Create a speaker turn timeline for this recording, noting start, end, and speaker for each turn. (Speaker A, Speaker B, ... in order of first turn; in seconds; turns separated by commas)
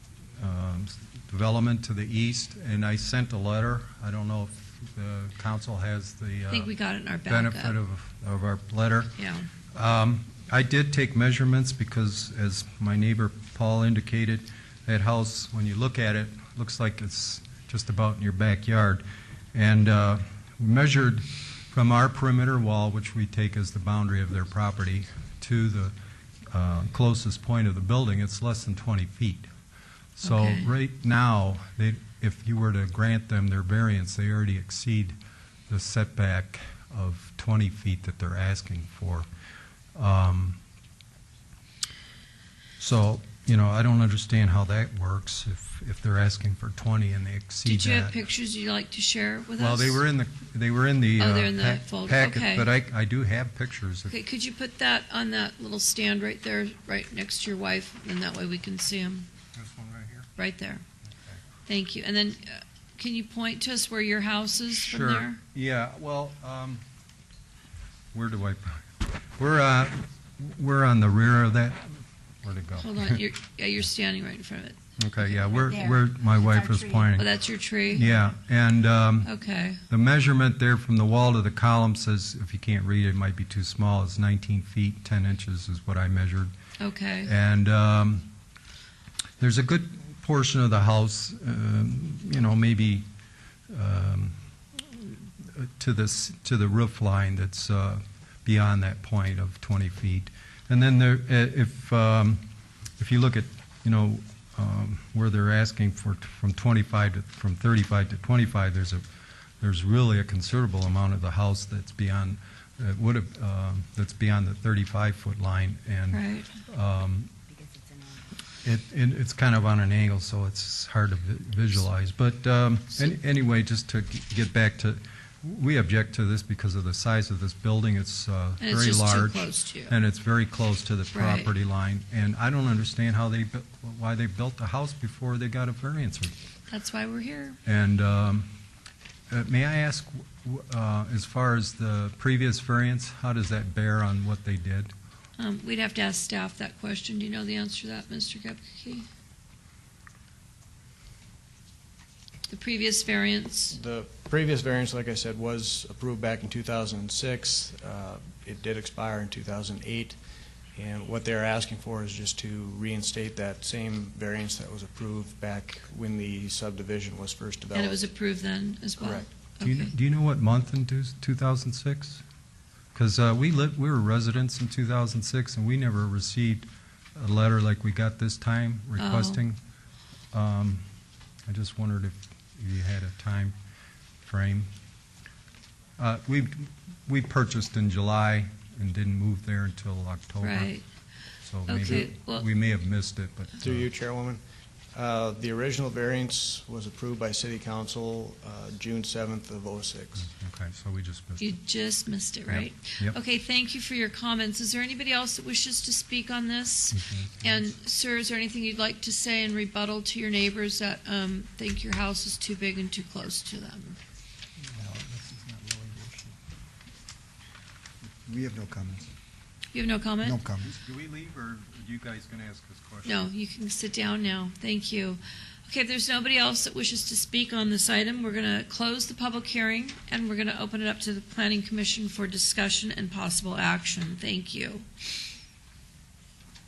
Speaker A: 0.4-6.7, Speaker B: 6.5-7.8, Speaker A: 7.3-9.1, Speaker B: 9.2-9.5, Speaker A: 9.7-25.9, Speaker A: 26.5-29.5, Speaker A: 30.2-35.2, Speaker B: 30.2-30.7, Speaker A: 35.7-39.3, Speaker A: 40.0-40.6, Speaker A: 42.8-48.2, Speaker B: 47.6-50.0, Speaker A: 49.6-54.1, Speaker B: 51.2-52.7, Speaker B: 54.1-59.3, Speaker A: 59.5-60.3, Speaker B: 60.4-60.8, Speaker B: 61.7-65.4, Speaker A: 64.9-66.8, Speaker A: 68.1-73.2, Speaker B: 72.8-75.5, Speaker A: 75.0-77.3, Speaker C: 75.6-77.1, Speaker B: 77.1-78.1, Speaker A: 77.9-79.3, Speaker B: 79.2-79.8, Speaker A: 79.9-86.5, Speaker B: 86.8-87.3, Speaker A: 87.2-88.3, Speaker A: 89.4-93.1, Speaker A: 93.7-102.4, Speaker A: 103.0-109.0, Speaker A: 109.6-117.3, Speaker B: 116.1-116.5, Speaker C: 117.5-118.2, Speaker A: 118.6-136.4, Speaker B: 128.6-129.9, Speaker B: 131.1-131.5, Speaker B: 136.7-137.6, Speaker A: 137.7-138.5, Speaker A: 139.3-144.9, Speaker B: 145.4-149.1, Speaker B: 152.5-153.8, Speaker D: 153.7-160.2, Speaker D: 160.8-168.1, Speaker B: 167.7-169.9, Speaker D: 169.0-169.3, Speaker A: 169.6-172.2, Speaker A: 172.9-179.6, Speaker B: 179.0-179.4, Speaker A: 180.3-180.8, Speaker A: 181.5-183.6, Speaker A: 184.2-184.7, Speaker A: 186.0-190.8, Speaker B: 190.4-190.8, Speaker A: 191.4-193.9, Speaker B: 191.7-192.5, Speaker D: 193.6-194.4, Speaker D: 194.9-200.3, Speaker A: 200.2-201.6, Speaker B: 201.4-214.0, Speaker A: 202.5-203.2, Speaker A: 206.9-207.7, Speaker E: 214.6-216.4, Speaker E: 218.0-219.1, Speaker B: 219.7-220.4, Speaker E: 220.2-220.8, Speaker A: 220.6-223.3, Speaker B: 223.0-234.9